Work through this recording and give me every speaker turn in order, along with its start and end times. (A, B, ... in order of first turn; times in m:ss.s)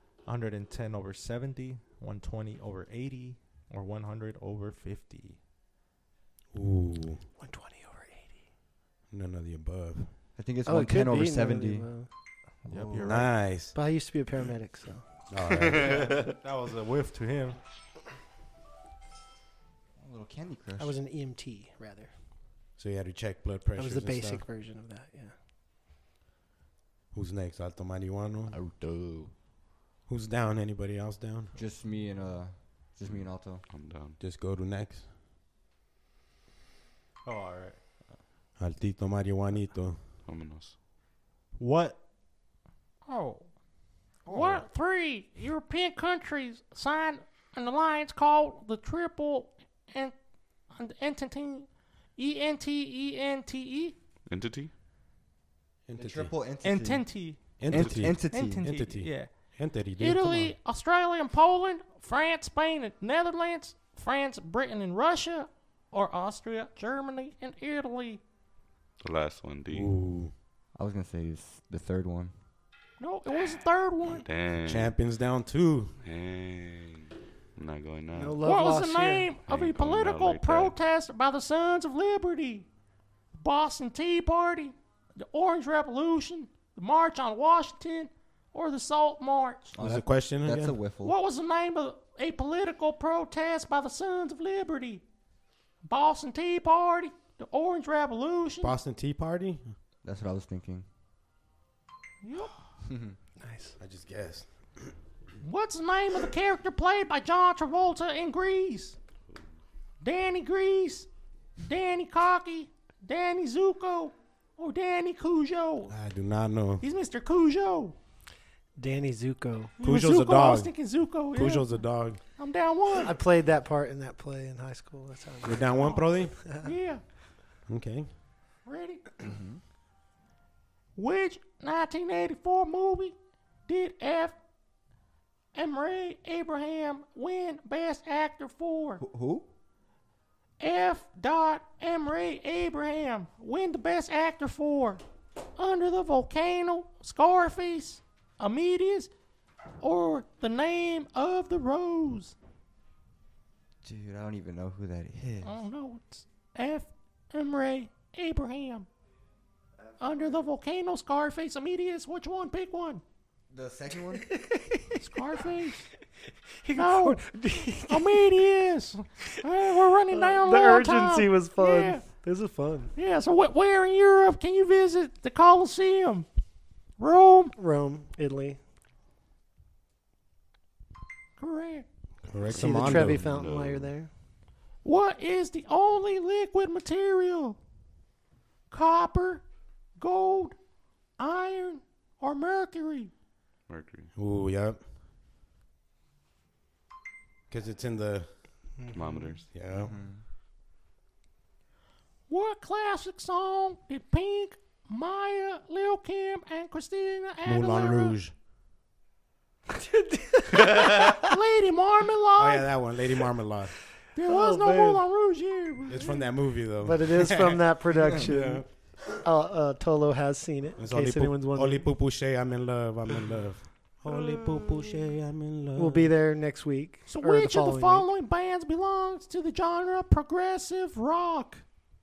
0:00.2-0:05.4 A
0:06.5-0:07.2 B
0:07.4-0:08.4 C
0:09.1-0:10.1 B
0:10.4-0:11.9 D
0:10.6-0:12.1 C
0:12.6-0:13.4 A
0:12.7-0:13.2 D
0:13.0-0:13.7 B
0:13.7-0:15.0 C
0:15.3-0:16.0 B
0:15.7-0:17.6 A
0:15.7-0:16.3 E
0:20.0-0:20.9 D
0:20.8-0:22.1 C
0:22.8-0:24.4 B
0:23.8-0:25.3 C
0:27.1-0:28.6 B
0:28.5-0:29.3 D
0:30.1-0:31.5 B
0:31.5-0:33.6 D
0:33.0-0:34.2 E
0:34.2-0:35.0 B
0:37.2-0:37.8 A
0:38.6-0:40.0 B
0:40.2-0:40.7 E
0:41.6-0:42.0 A
0:43.0-0:43.5 F
0:44.3-0:50.2 F
0:50.7-0:53.9 F
0:54.3-0:54.7 E
0:55.9-0:56.3 B
0:55.9-0:58.6 D
0:56.6-0:59.3 A
0:56.8-0:57.2 F
0:57.6-1:00.5 B
1:00.0-1:08.2 F
1:09.0-1:09.9 E
1:09.7-1:10.3 B
1:10.8-1:12.3 D
1:13.0-1:14.2 F
1:14.2-1:14.9 E
1:14.6-1:15.9 B
1:16.0-1:18.4 E
1:18.1-1:19.3 C
1:18.4-1:22.7 F
1:19.5-1:20.8 E
1:23.3-1:29.7 F
1:29.7-1:31.1 D
1:29.8-1:30.8 B
1:31.0-1:35.0 F
1:35.8-1:38.8 F
1:38.6-1:39.7 B
1:40.0-1:40.8 D
1:42.2-1:42.5 F
1:42.8-1:43.2 D
1:43.4-1:43.7 C
1:43.8-1:44.9 B
1:45.4-1:49.0 F
1:50.0-1:55.9 F
1:55.9-1:56.8 B
1:56.8-1:58.0 F
1:58.8-1:59.7 C
1:59.8-2:03.1 F
1:59.8-2:00.8 B
2:01.3-2:02.2 B
2:03.0-2:06.0 C
2:05.4-2:06.4 B
2:05.7-2:06.1 F
2:06.6-2:07.0 F
2:07.7-2:08.1 B
2:08.6-2:09.2 F
2:09.2-2:09.6 D
2:10.9-2:14.3 F
2:15.5-2:19.0 F
2:19.0-2:19.5 D
2:20.6-2:25.0 F
2:25.6-2:29.1 F
2:29.8-2:32.3 F
2:33.8-2:35.6 D
2:35.4-2:38.9 F
2:40.0-2:43.0 F
2:43.5-2:44.3 D
2:44.2-2:44.9 C
2:45.0-2:45.8 F
2:46.6-2:48.3 C
2:46.7-2:47.2 F
2:47.8-2:52.0 F
2:50.1-2:52.9 C
2:53.0-2:56.2 F
2:57.0-2:57.5 F
2:57.6-2:58.6 C
3:01.4-3:01.8 F
3:02.3-3:03.3 B
3:02.5-3:04.1 C
3:02.6-3:03.9 E
3:04.8-3:07.6 F
3:08.7-3:09.4 F
3:10.0-3:10.6 F
3:11.2-3:13.1 F
3:13.7-3:14.1 E
3:14.2-3:14.8 B
3:17.5-3:18.3 B
3:18.8-3:19.4 C
3:18.9-3:19.5 E
3:19.5-3:19.9 B
3:19.7-3:20.2 D
3:22.3-3:28.2 F
3:27.4-3:28.3 B
3:29.7-3:31.0 C
3:30.7-3:32.7 F
3:32.4-3:33.7 B
3:34.1-3:36.2 F
3:34.2-3:35.0 C
3:35.9-3:37.6 B
3:36.8-3:41.9 C
3:38.2-3:38.7 B
3:40.8-3:46.1 B
3:45.8-3:48.1 C
3:47.1-3:51.6 F